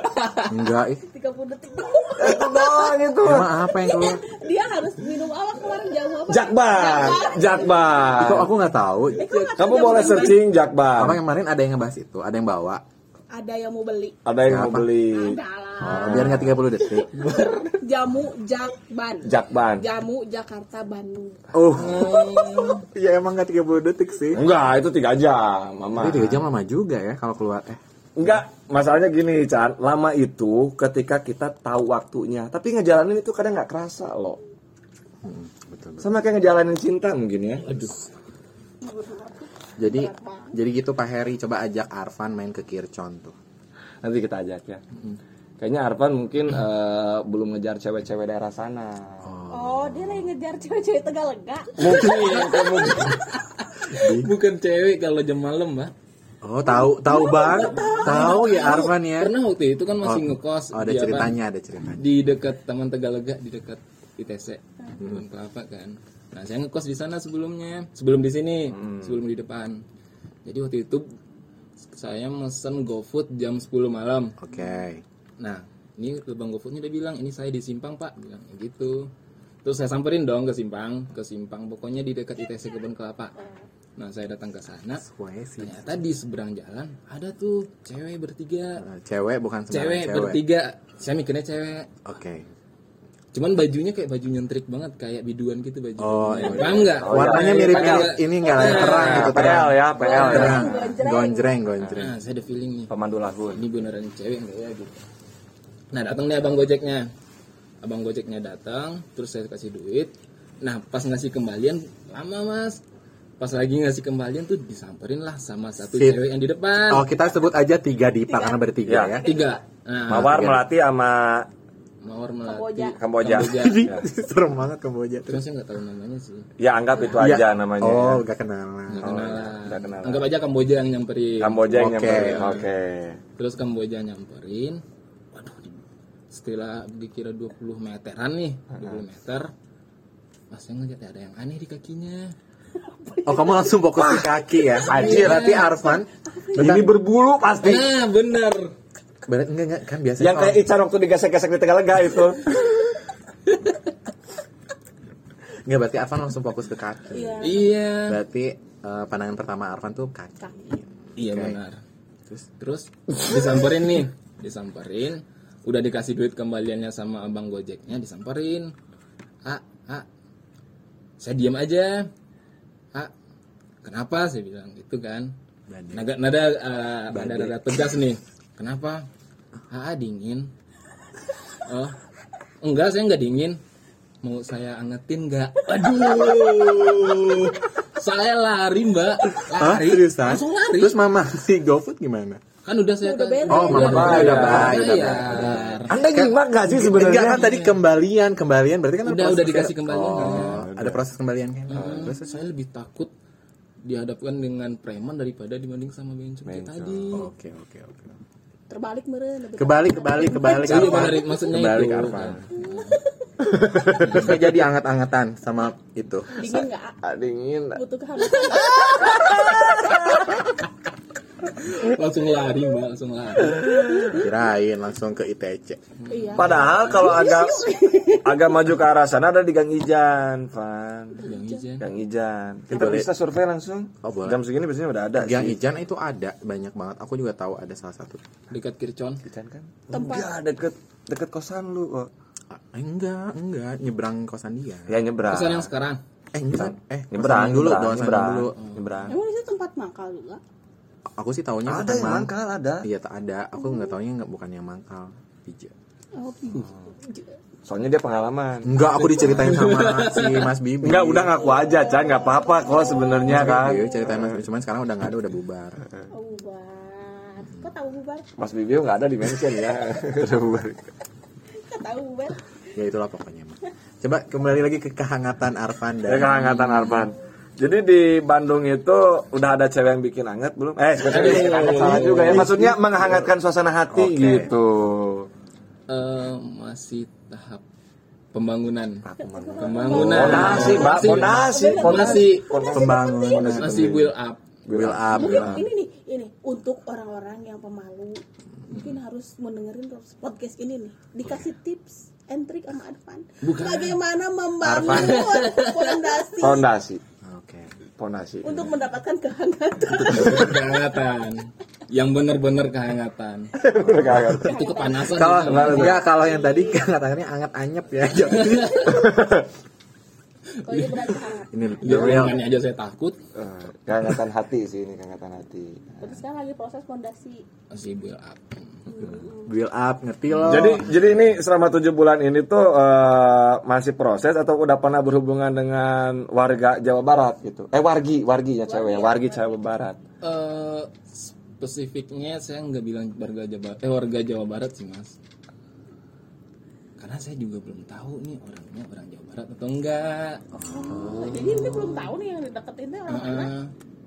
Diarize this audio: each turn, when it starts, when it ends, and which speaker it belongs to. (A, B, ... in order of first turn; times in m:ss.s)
0:00.5-0:01.0 A
0:01.0-0:03.0 B
0:02.2-0:03.5 C
0:03.2-0:04.2 A
0:03.6-0:08.2 B
0:06.3-0:08.5 C
0:08.2-0:10.4 A
0:09.1-0:10.5 B
0:09.6-0:11.2 C
0:10.9-0:12.8 A
0:13.3-0:14.2 B
0:14.2-0:16.6 C
0:14.5-0:14.9 A
0:15.1-0:21.5 B
0:15.8-0:17.4 A
0:19.2-0:19.8 C
0:21.5-0:24.4 A
0:21.7-0:22.8 D
0:24.3-0:26.4 C
0:26.0-0:27.8 A
0:28.2-0:34.4 C
0:35.2-0:36.1 A
0:36.0-0:37.9 C
0:37.7-0:38.0 D
0:38.8-0:40.5 B
0:39.8-0:43.4 A
0:44.0-0:44.8 C
0:45.6-0:49.3 C
0:49.2-0:50.3 A
0:49.5-0:53.3 B
0:51.8-0:53.2 C
0:51.9-0:53.2 D
0:53.9-0:55.9 D
0:53.9-0:54.3 A
0:56.4-0:59.3 A
0:56.6-0:58.9 B
0:58.0-1:01.4 D
1:00.0-1:02.1 A
1:01.9-1:09.8 D
1:05.0-1:05.2 A
1:08.7-1:09.1 C
1:10.4-1:11.1 D
1:11.9-1:14.3 D
1:14.4-1:15.0 A
1:15.4-1:19.1 D
1:19.6-1:23.3 D
1:24.0-1:25.0 D
1:25.0-1:25.9 A
1:25.6-1:28.8 D
1:28.8-1:30.4 A
1:29.7-1:31.9 D
1:32.0-1:32.5 A
1:33.3-1:40.7 D
1:36.0-1:42.1 A
1:36.4-1:40.7 C
1:40.0-1:41.5 B
1:42.0-1:42.9 D
1:42.9-1:43.6 C
1:43.6-1:45.0 D
1:45.9-1:47.1 D
1:47.8-1:52.8 D
1:53.4-1:57.1 D
1:55.9-1:56.2 A
1:56.8-1:59.2 A
1:58.3-1:59.6 B
1:58.8-1:59.2 C
1:59.2-2:00.5 D
2:00.1-2:01.5 C
2:00.1-2:00.6 A
2:02.0-2:03.9 D
2:02.4-2:03.0 B
2:03.0-2:04.0 C
2:03.4-2:05.4 A
2:05.3-2:06.5 D
2:06.6-2:08.2 C
2:07.1-2:09.2 A
2:08.9-2:12.7 D
2:09.0-2:10.3 C
2:11.4-2:13.2 C
2:11.7-2:12.6 A
2:13.4-2:19.5 D
2:18.7-2:19.0 C
2:20.5-2:22.3 D
2:23.1-2:23.6 B
2:23.2-2:26.9 A
2:23.9-2:25.6 C
2:24.9-2:25.7 D
2:25.4-2:26.6 B
2:26.5-2:27.9 C
2:27.6-2:28.7 D
2:29.2-2:30.6 A
2:30.2-2:32.6 C
2:35.6-2:41.6 A
2:37.1-2:37.7 B
2:37.4-2:38.2 D
2:41.2-2:41.8 D
2:42.6-2:48.7 D
2:49.4-2:50.0 D
2:51.2-2:52.1 D
2:53.8-2:55.3 D
2:55.7-2:56.1 A
2:55.9-2:59.1 D
2:57.1-2:57.8 A
2:59.7-3:00.5 D
3:01.6-3:02.0 D
3:02.6-3:03.6 D
3:04.2-3:11.0 D
3:09.5-3:12.4 A
3:12.6-3:15.9 D
3:13.0-3:14.8 B
3:13.5-3:22.4 A
3:13.7-3:17.5 C
3:17.3-3:17.7 D
3:19.0-3:20.6 D
3:20.1-3:21.0 C
3:21.7-3:23.1 D
3:21.7-3:22.1 C
3:23.8-3:27.3 D
3:26.4-3:27.1 C
3:27.1-3:28.2 A
3:28.7-3:31.3 B
3:29.6-3:32.4 A
3:30.4-3:33.0 D
3:32.1-3:32.4 C
3:32.5-3:33.1 B
3:33.8-3:36.4 A
3:34.0-3:34.4 D
3:36.4-3:36.9 B
3:37.0-3:37.8 C
3:37.7-3:40.4 B
3:38.6-3:40.2 C
3:41.5-3:43.8 D
3:43.6-3:44.1 C
3:44.1-3:45.8 A
3:46.0-3:47.0 D
3:46.1-3:48.5 B
3:46.3-3:47.7 C
3:48.2-3:51.2 C
3:51.2-3:51.6 B
3:51.2-3:51.9 D
3:51.8-3:55.6 C
3:52.7-3:53.1 A
3:54.0-3:54.4 A
3:55.2-3:58.2 A
3:58.5-3:59.2 D
3:59.2-4:02.1 C
3:59.9-4:00.3 B
4:02.5-4:05.0 A
4:04.9-4:05.7 C
4:05.3-4:06.0 D
4:06.3-4:08.5 A
4:06.6-4:09.2 C
4:09.1-4:10.4 B
4:11.2-4:15.7 A
4:11.6-4:12.9 C
4:16.1-4:17.4 B
4:17.6-4:19.5 C
4:18.6-4:21.3 A
4:19.0-4:20.5 D
4:20.8-4:24.4 C
4:21.3-4:24.1 B
4:23.2-4:25.8 A
4:26.1-4:28.2 B
4:28.4-4:30.8 C
4:31.6-4:32.4 B
4:32.7-4:36.4 A
4:36.0-4:45.3 C
4:36.3-4:37.0 D
4:41.0-4:42.5 D
4:41.4-4:42.8 A
4:43.9-4:44.5 A
4:45.9-4:47.6 D
4:48.3-4:49.0 D
4:49.0-4:54.1 C
4:49.2-4:53.6 B
4:49.6-4:52.5 D
4:50.1-4:50.8 A
4:52.6-4:53.9 A
4:53.6-4:54.4 D
4:54.6-4:55.6 C
4:54.7-4:55.7 A
4:55.1-5:06.7 B
5:03.4-5:04.0 D
5:04.6-5:05.3 A
5:04.8-5:06.1 D
5:06.4-5:07.0 C
5:07.2-5:07.7 A
5:08.0-5:08.7 C
5:08.4-5:10.8 B
5:10.0-5:13.5 D
5:13.6-5:14.7 C
5:13.8-5:14.4 A
5:14.1-5:16.8 B
5:14.4-5:16.0 D
5:15.1-5:19.3 A
5:15.4-5:16.0 C
5:18.2-5:19.0 D
5:20.6-5:22.4 B
5:20.6-5:21.1 D
5:21.5-5:22.4 A
5:21.8-5:23.2 D
5:23.3-5:26.2 C
5:26.0-5:27.4 B
5:27.7-5:28.9 D
5:28.9-5:29.5 B
5:29.0-5:30.9 A
5:30.3-5:30.8 D
5:30.4-5:40.0 C
5:38.7-5:39.6 B
5:40.2-5:45.1 D
5:47.0-5:50.4 D
5:50.6-5:51.4 A
5:50.6-5:53.5 B
5:53.1-5:53.7 D